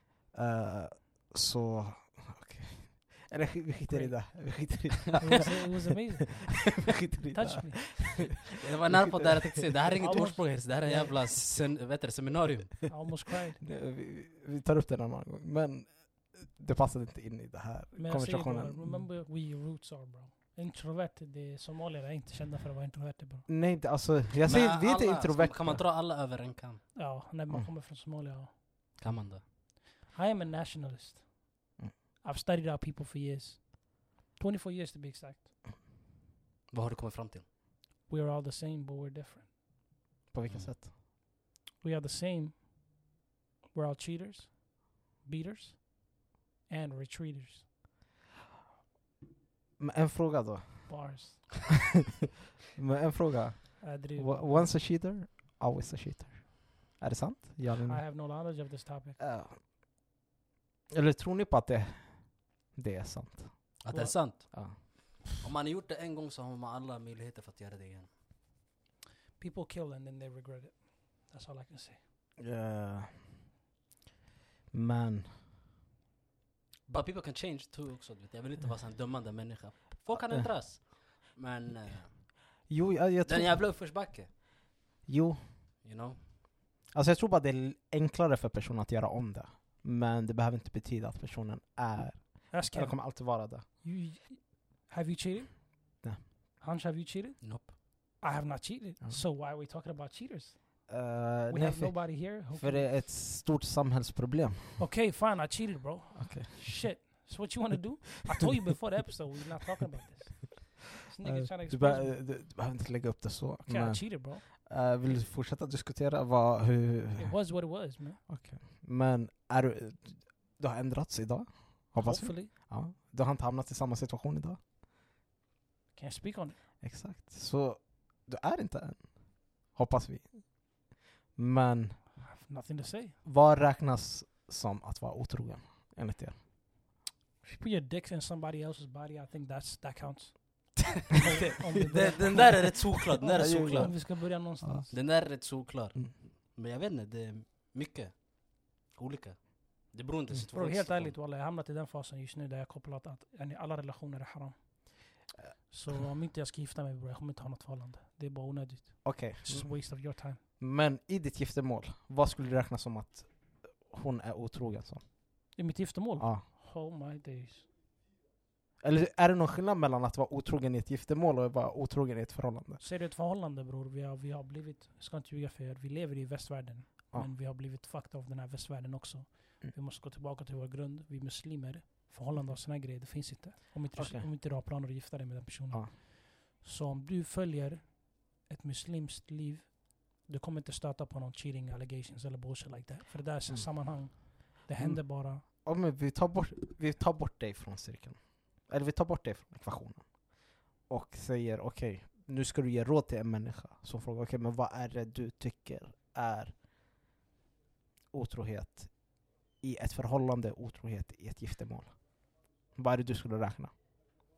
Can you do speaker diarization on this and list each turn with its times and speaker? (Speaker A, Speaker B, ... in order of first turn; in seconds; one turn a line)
Speaker A: 0.3-6.0
Speaker B: 3.9-8.2
Speaker A: 6.8-11.4
Speaker C: 8.4-13.0
Speaker B: 10.0-10.6
Speaker B: 12.9-13.6
Speaker A: 13.6-19.1
Speaker B: 17.9-23.5
Speaker A: 23.5-25.9
Speaker C: 24.4-26.9
Speaker B: 26.9-28.6
Speaker C: 29.0-29.4
Speaker B: 30.0-31.4
Speaker B: 32.2-35.5
Speaker C: 36.7-37.5
Speaker B: 38.1-39.5
Speaker A: 40.3-40.9
Speaker B: 41.8-42.7
Speaker B: 43.7-46.1
Speaker B: 46.7-47.7
Speaker A: 49.8-51.1
Speaker B: 50.9-51.8
Speaker A: 52.8-58.0
Speaker B: 53.8-54.7
Speaker B: 57.6-59.2
Speaker A: 59.2-59.6
Speaker A: 60.9-63.9
Speaker C: 63.8-68.1
Speaker B: 63.9-64.2
Speaker A: 64.5-64.8
Speaker B: 69.4-72.0
Speaker A: 72.4-73.3
Speaker A: 74.7-75.3
Speaker C: 76.9-82.3
Speaker A: 80.1-80.5
Speaker A: 82.7-83.6
Speaker C: 83.3-84.3
Speaker A: 85.0-85.5
Speaker C: 85.8-86.2
Speaker A: 86.9-93.7
Speaker B: 92.5-96.0
Speaker B: 96.6-100.9
Speaker C: 97.4-97.8
Speaker A: 100.9-104.9
Speaker B: 101.5-102.9
Speaker B: 104.8-112.2
Speaker A: 106.2-107.0
Speaker A: 111.2-117.5
Speaker B: 113.6-114.4
Speaker B: 117.2-118.2
Speaker A: 118.3-124.6
Speaker B: 122.0-122.5
Speaker B: 125.9-126.6
Speaker A: 126.8-130.8
Speaker A: 131.3-132.2
Speaker B: 132.3-133.2
Speaker A: 133.2-136.4
Speaker B: 137.4-144.9
Speaker C: 141.1-144.0
Speaker A: 141.8-144.9
Speaker C: 144.9-151.2
Speaker B: 150.5-160.4
Speaker A: 159.0-160.0
Speaker A: 160.6-165.1
Speaker B: 165.5-167.7
Speaker A: 166.2-166.4
Speaker A: 168.8-172.8
Speaker B: 172.8-195.4
Speaker A: 183.9-184.3
Speaker A: 193.5-194.2
Speaker A: 194.8-206.7
Speaker A: 208.1-213.8